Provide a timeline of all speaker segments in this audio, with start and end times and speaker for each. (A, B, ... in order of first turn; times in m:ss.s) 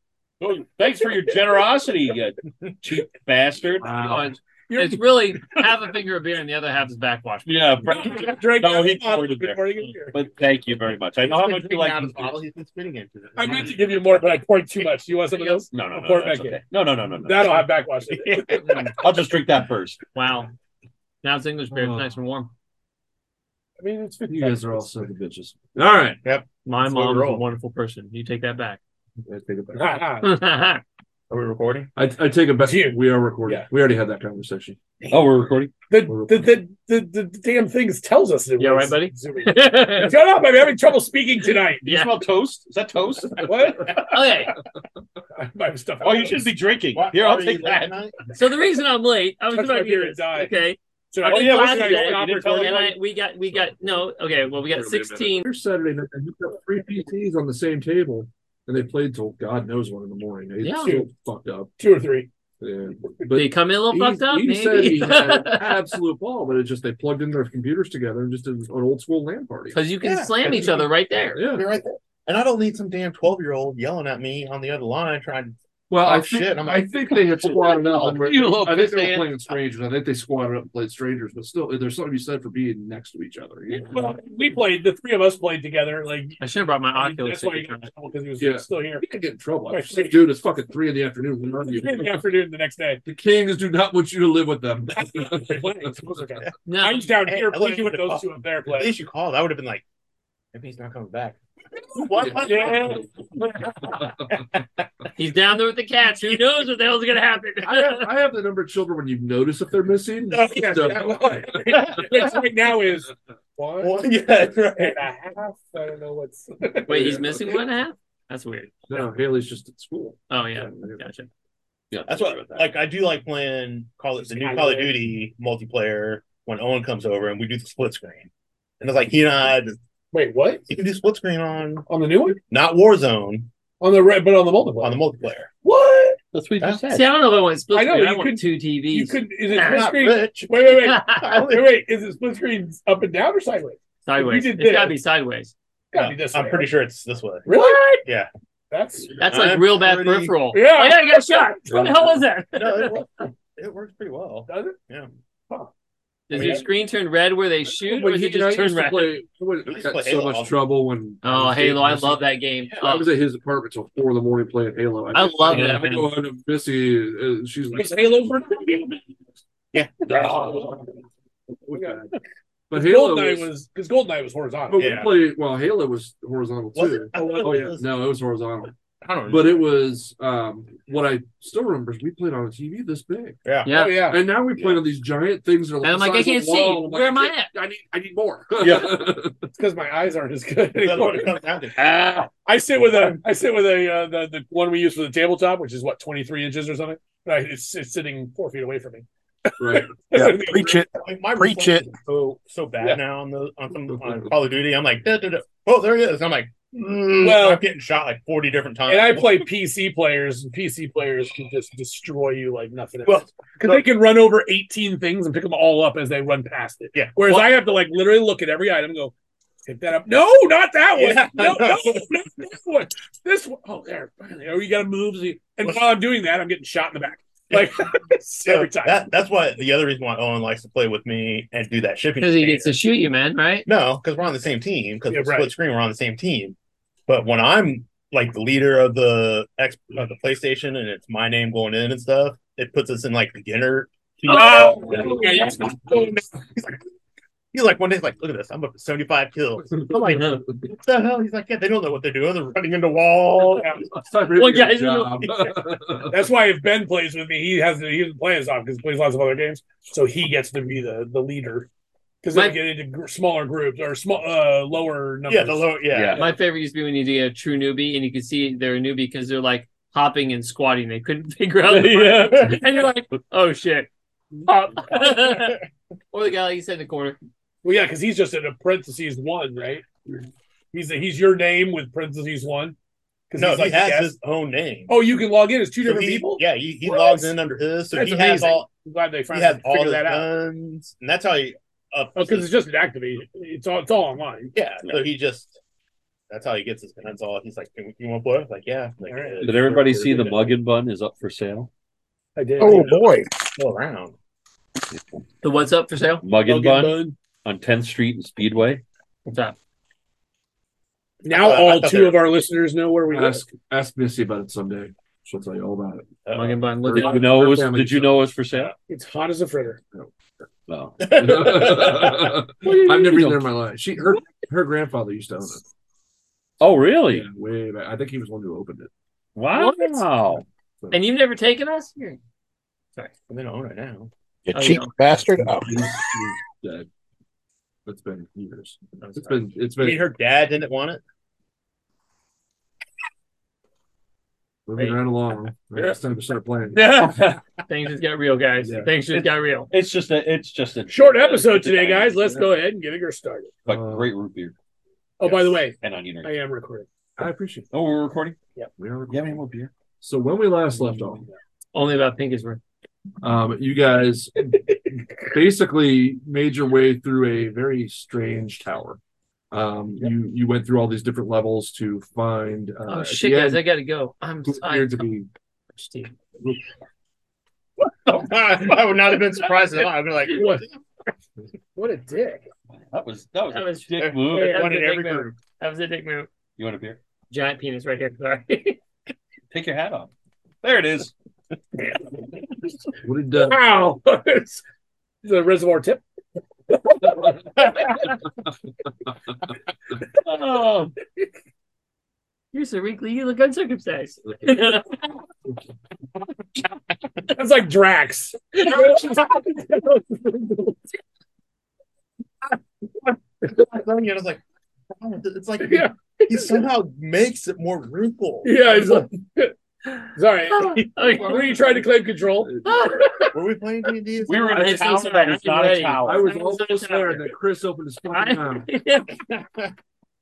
0:00.4-0:04.2 A
0:01.1-0:01.4 B
0:03.8-0:04.4 C
0:04.2-0:07.6 D
0:04.7-0:05.0 B
0:07.4-0:12.4 A
0:07.9-0:10.2 B
0:11.2-0:13.8 E
0:13.4-0:16.6 B
0:15.4-0:15.6 D
0:15.7-0:17.6 A
0:17.2-0:18.8 B
0:18.1-0:19.2 E
0:19.0-0:20.0 A
0:20.1-0:20.5 D
0:21.2-0:22.5 D
0:21.7-0:22.1 C
0:23.8-0:24.9 B
0:24.3-0:26.2 C
0:26.2-0:27.4 E
0:26.6-0:28.8 D
0:29.2-0:30.0 C
0:29.7-0:30.3 B
0:30.2-0:30.8 D
0:31.3-0:31.9 E
0:31.9-0:34.8 C
0:32.6-0:33.7 B
0:35.1-0:35.7 A
0:35.9-0:41.9 B
0:36.1-0:36.5 C
0:38.6-0:40.2 D
0:41.8-0:42.1 D
0:41.8-0:43.7 A
0:43.4-0:44.0 B
0:43.9-0:44.6 D
0:45.3-0:46.5 B
0:46.0-0:48.0 A
0:46.9-0:48.2 E
0:48.3-0:55.4 D
0:49.5-0:50.5 B
0:51.1-0:52.9 B
0:51.2-0:52.8 E
0:54.7-1:01.7 C
1:00.6-1:01.0 D
1:00.8-1:01.1 B
1:01.8-1:02.3 B
1:02.6-1:09.8 C
1:03.3-1:05.8 D
1:09.7-1:11.4 D
1:10.0-1:10.9 E
1:11.3-1:11.7 C
1:11.5-1:18.1 E
1:15.9-1:24.0 C
1:17.8-1:19.4 A
1:23.7-1:29.0 B
1:26.4-1:27.9 D
1:28.4-1:32.2 C
1:29.7-1:30.2 B
1:31.6-1:33.0 B
1:33.0-1:36.0 C
1:34.9-1:38.9 B
1:36.6-1:37.1 D
1:37.3-1:39.8 E
1:40.5-1:41.4 E
1:41.9-1:43.1 E
1:42.2-1:43.4 B
1:44.3-1:44.6 E
1:45.1-1:48.1 D
1:47.6-1:51.8 C
1:50.3-1:51.1 E
1:50.5-1:54.1 B
1:51.7-1:52.4 E
1:53.8-1:55.0 E
1:54.6-1:57.4 B
1:56.8-1:58.7 D
1:56.9-1:57.4 C
1:58.9-2:01.0 C
2:00.3-2:01.3 D
2:01.9-2:02.7 A
2:02.1-2:09.8 E
2:04.3-2:05.0 B
2:10.1-2:10.6 B
2:10.7-2:11.8 E
2:11.9-2:12.4 B
2:12.5-2:13.5 E
2:13.8-2:15.0 B
2:14.8-2:15.5 E
2:15.6-2:16.2 B
2:16.3-2:17.1 A
2:16.9-2:19.8 D
2:17.7-2:25.0 B
2:19.5-2:21.7 E
2:20.8-2:21.2 D
2:24.0-2:25.5 D
2:25.9-2:26.7 B
2:25.9-2:28.3 E
2:27.4-2:28.0 B
2:28.7-2:29.3 B
2:29.2-2:33.0 D
2:29.2-2:30.4 E
2:30.5-2:31.7 B
2:31.7-2:32.1 C
2:32.5-2:35.1 E
2:34.5-2:34.8 B
2:36.3-2:39.2 D
2:36.3-2:36.6 B
2:36.3-2:36.6 E
2:37.8-2:42.2 C
2:39.6-2:40.6 E
2:41.2-2:43.1 D
2:42.8-2:48.1 C
2:45.1-2:46.1 D
2:45.5-2:46.0 A
2:47.7-2:49.0 B
2:49.7-2:50.0 E
2:50.1-2:50.6 A
2:50.3-2:50.8 B
2:51.7-2:52.1 C
2:51.7-2:52.0 B
2:52.7-2:53.5 C
2:52.7-2:55.0 B
2:54.7-2:58.7 C
2:54.8-2:55.1 E
2:56.7-2:57.8 E
2:57.1-2:57.7 B
2:59.0-2:59.6 E
2:59.2-3:03.4 C
3:03.4-3:03.8 E
3:03.6-3:04.0 D
3:03.7-3:04.2 B
3:04.0-3:09.5 C
3:05.8-3:07.5 D
3:08.6-3:09.0 A
3:09.5-3:11.4 B
3:10.8-3:11.9 E
3:11.8-3:12.3 A
3:12.3-3:20.8 B
3:12.9-3:13.2 E
3:19.6-3:19.9 C
3:20.1-3:21.9 F
3:21.0-3:29.3 E
3:23.9-3:24.3 C
3:27.2-3:27.6 B
3:28.9-3:39.1 B
3:33.0-3:33.8 E
3:36.9-3:37.5 E
3:39.6-3:49.1 B
3:41.0-3:42.0 E
3:47.5-3:47.9 E
3:48.4-3:52.8 E
3:52.2-3:53.7 D
3:53.6-3:56.6 E
3:55.1-3:55.5 B
3:57.1-4:06.8 E
4:04.3-4:05.5 D
4:04.3-4:06.2 B
4:07.5-4:13.9 E
4:13.9-4:16.2 C
4:14.3-4:15.3 D
4:16.1-4:21.7 B
4:22.2-4:25.8 B
4:22.3-4:22.6 D
4:25.3-4:26.4 E
4:25.9-4:26.3 A
4:26.1-4:33.9 D
4:31.7-4:32.6 A
4:34.4-4:35.6 D
4:36.1-4:37.2 D
4:37.6-4:39.8 B
4:40.7-4:42.7 B
4:43.3-4:44.1 B
4:43.4-4:45.0 E
4:44.9-4:47.4 B
4:45.8-4:48.7 E
4:47.9-4:50.3 B
4:49.3-4:52.5 E
4:52.1-4:54.5 B
4:54.5-4:55.6 E
4:56.3-5:00.4 E
4:59.0-5:00.3 B
4:59.4-5:01.7 A
5:02.4-5:03.0 B
5:02.6-5:03.4 F
5:03.5-5:04.1 E
5:05.4-5:06.2 D
5:06.2-5:08.8 A
5:06.4-5:07.1 B
5:09.2-5:09.6 D
5:11.2-5:13.4 B
5:11.3-5:12.2 E
5:13.1-5:16.2 C
5:16.3-5:16.6 E
5:16.3-5:17.3 D
5:16.8-5:18.2 C
5:16.9-5:18.7 A
5:18.9-5:19.8 B
5:20.7-5:21.9 A
5:21.0-5:22.3 E
5:21.0-5:25.6 C
5:22.6-5:23.4 A
5:26.6-5:27.3 A
5:27.1-5:28.9 C
5:29.4-5:30.4 A
5:29.5-5:30.0 D
5:30.9-5:32.2 D
5:33.3-5:34.1 E
5:34.5-5:35.9 F
5:34.5-5:34.9 D
5:35.3-5:36.9 C
5:37.8-5:40.0 C
5:39.0-5:39.3 D
5:39.8-5:41.0 E
5:44.6-5:46.9 C
5:46.8-5:47.4 A
5:46.8-5:49.7 D
5:48.6-5:48.9 C
5:49.7-5:52.5 A
5:50.9-5:53.6 B
5:53.6-5:54.1 C
5:53.6-5:54.5 A
5:55.2-5:56.9 B
5:55.2-5:56.4 A
5:57.2-5:57.7 C
5:57.7-5:58.4 A
5:58.8-5:59.4 C
5:59.1-5:59.7 A
6:00.0-6:01.2 C
6:01.7-6:02.6 D
6:03.2-6:09.0 C
6:09.5-6:13.6 C
6:12.9-6:15.1 D
6:14.4-6:15.3 C
6:15.8-6:16.1 D
6:18.0-6:20.8 E
6:20.3-6:20.6 B
6:21.8-6:22.5 B
6:22.9-6:24.8 A
6:23.5-6:26.3 D
6:24.0-6:25.3 E
6:26.6-6:27.0 A
6:27.3-6:28.8 D
6:29.5-6:30.1 A
6:30.6-6:31.1 A
6:33.0-6:33.6 C
6:33.3-6:34.6 B
6:35.2-6:36.0 B
6:36.7-6:38.0 B
6:40.3-6:40.9 A
6:42.5-6:45.0 D
6:47.3-6:50.8 B
6:53.4-6:54.4 E
6:54.9-6:58.6 E
6:55.6-6:56.6 B
6:58.4-6:59.5 B
7:00.1-7:03.3 B
7:00.5-7:01.6 D
7:02.4-7:02.9 C
7:02.6-7:03.3 D
7:03.3-7:04.8 E
7:04.2-7:06.3 A
7:04.5-7:07.3 D
7:06.0-7:08.7 C
7:08.1-7:09.2 D